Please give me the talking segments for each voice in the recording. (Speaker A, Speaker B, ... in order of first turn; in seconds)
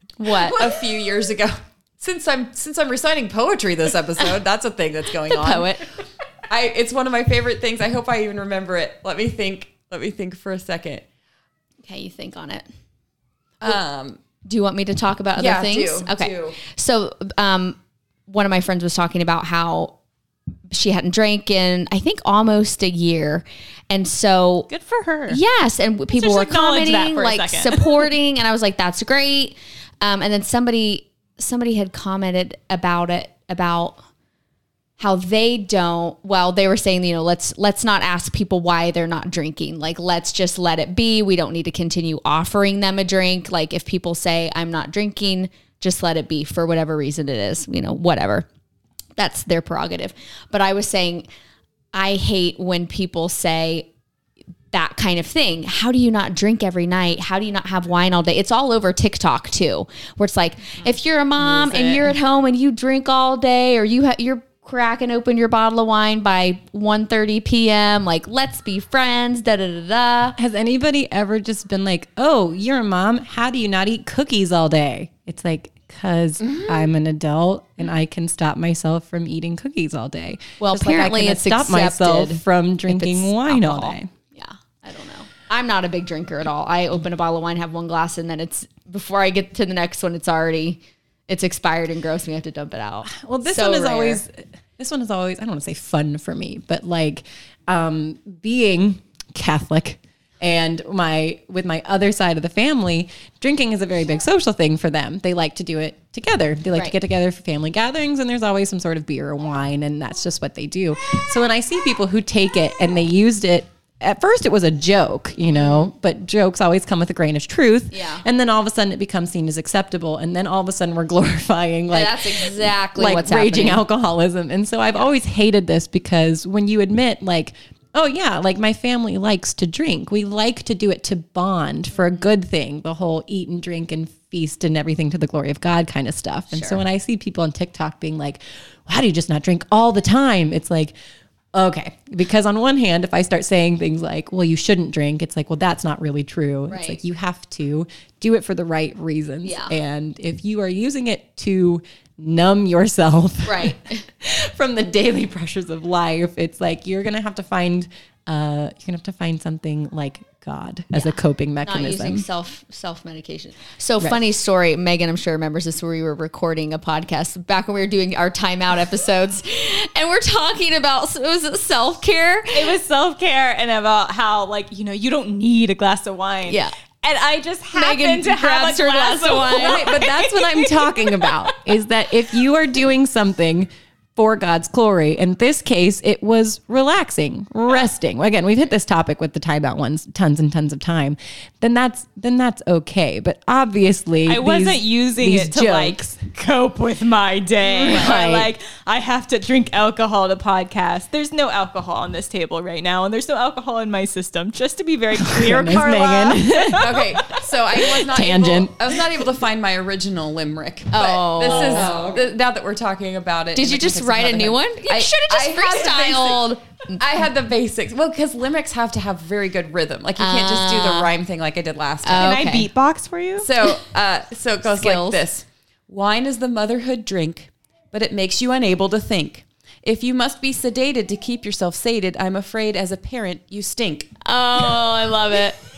Speaker A: 0.2-0.7, 5.3-5.9, 11.8-12.7, 14.4-19.9, 20.7-24.7, 25.3-34.0, 35.0-48.5, 49.2-51.3, 51.9-53.9, 54.7-70.4, 80.6-94.2, 117.9-118.2, 121.9-123.8, 132.0-132.2, 136.5-136.8, 146.7-147.0, 149.4-149.8, 153.4-154.0, 160.9-172.8, 176.5-176.7, 177.7-180.0, 210.9-211.9, 213.6-217.0, 220.2-221.1, 222.0-222.7, 224.7-225.2, 234.2-235.6
Speaker B: 0.3-5.8, 6.5-11.1, 13.6-14.2, 15.4-16.6, 61.4-62.2, 76.4-76.9, 197.9-198.2, 206.8-222.4, 223.4-234.1
Speaker C: 24.7-25.4, 26.1-28.1, 172.5-181.6, 194.3-207.0, 222.2-223.5
Speaker D: 70.4-84.1, 93.1-140.9, 141.5-162.2, 179.5-196.2, 197.6-198.5, 205.2-209.2, 211.5-212.3